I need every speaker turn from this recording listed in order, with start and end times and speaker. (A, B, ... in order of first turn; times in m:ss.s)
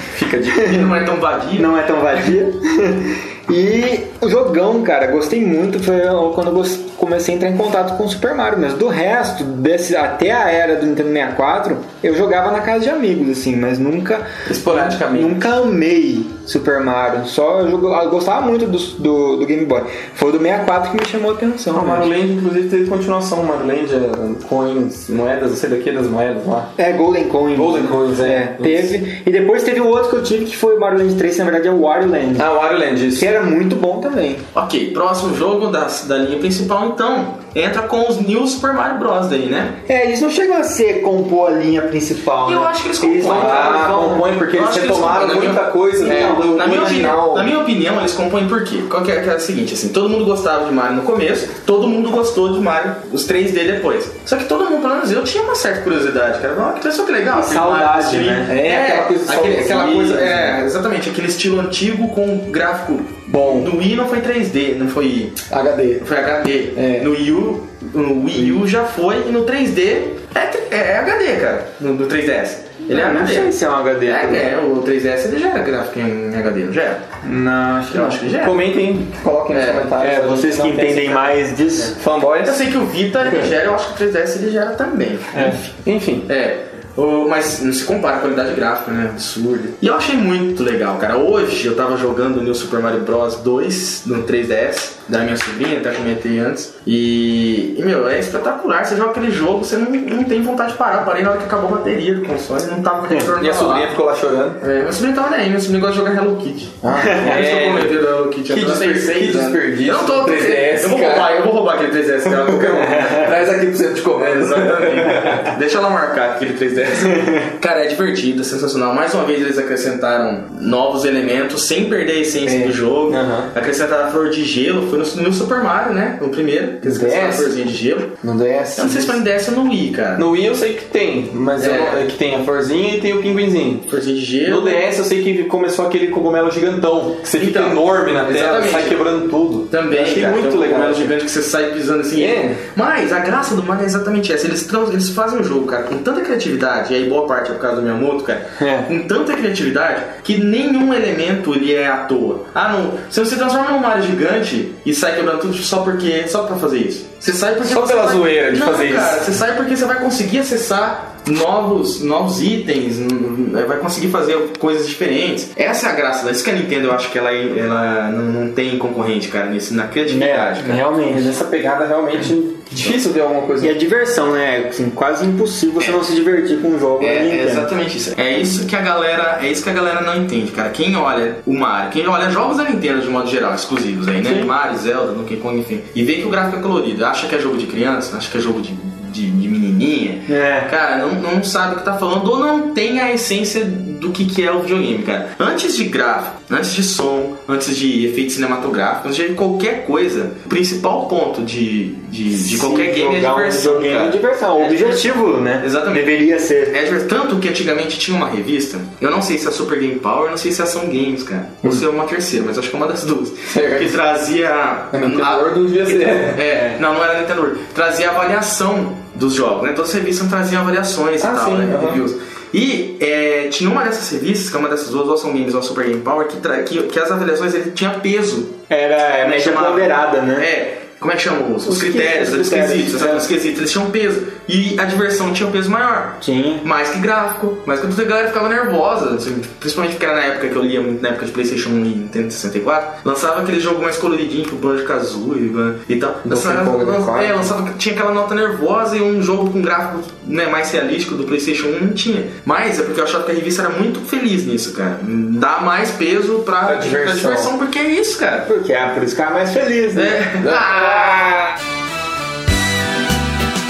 0:00.1-0:00.8 A
0:00.5-0:00.9 B
0:00.6-0:01.7 C
0:01.6-0:22.1 B
0:14.5-0:15.5 A
0:21.7-0:26.7 A
0:26.8-0:32.5 B
0:27.5-0:28.9 A
0:32.4-0:33.3 A
0:33.2-0:34.4 B
0:34.5-0:39.8 C
0:39.9-0:44.3 B
0:42.4-1:05.5 C
0:43.2-0:47.5 A
0:46.0-0:46.5 B
0:57.3-0:58.5 B
0:58.4-1:00.6 A
1:03.3-1:03.7 A
1:05.5-1:06.1 A
1:06.0-1:17.0 C
1:06.8-1:07.1 A
1:12.9-1:14.4 B
1:17.2-1:18.2 B
1:17.9-1:18.7 C
1:18.4-1:22.7 A
1:19.5-1:19.9 C
1:20.0-1:22.0 B
1:22.4-1:44.0 C
1:25.8-1:26.3 A
1:43.4-1:44.6 A
1:44.6-1:53.4 C
1:46.8-1:48.0 A
1:47.0-1:47.4 B
1:48.5-1:51.4 A
1:52.3-1:55.5 A
1:52.9-1:53.3 B
1:54.1-2:08.2 C
2:02.4-2:03.5 A
2:06.8-2:07.5 A
2:08.2-2:09.2 A
2:08.8-2:10.3 C
2:10.2-2:13.9 A
2:11.6-2:12.0 C
2:13.9-2:14.8 C
2:14.5-2:21.2 A
2:17.3-2:19.1 C
2:19.7-2:50.8 C
2:22.1-2:22.6 A
2:28.6-2:28.9 B
2:37.6-2:39.3 A
2:50.1-2:51.3 B
2:51.1-2:53.8 A
2:53.6-2:57.7 B
2:57.0-3:48.6 C
3:10.3-3:10.7 B
3:22.3-3:26.8 B
3:33.5-3:34.0 A
3:34.9-3:36.5 A
3:41.2-3:42.0 A
3:48.7-3:50.5 B
3:49.2-4:18.5 C
3:51.7-3:53.3 B
3:56.2-3:56.7 B
4:06.2-4:07.5 A
4:16.6-4:17.5 A
4:18.5-4:21.3 B
4:19.9-4:21.5 C
4:20.4-4:20.8 A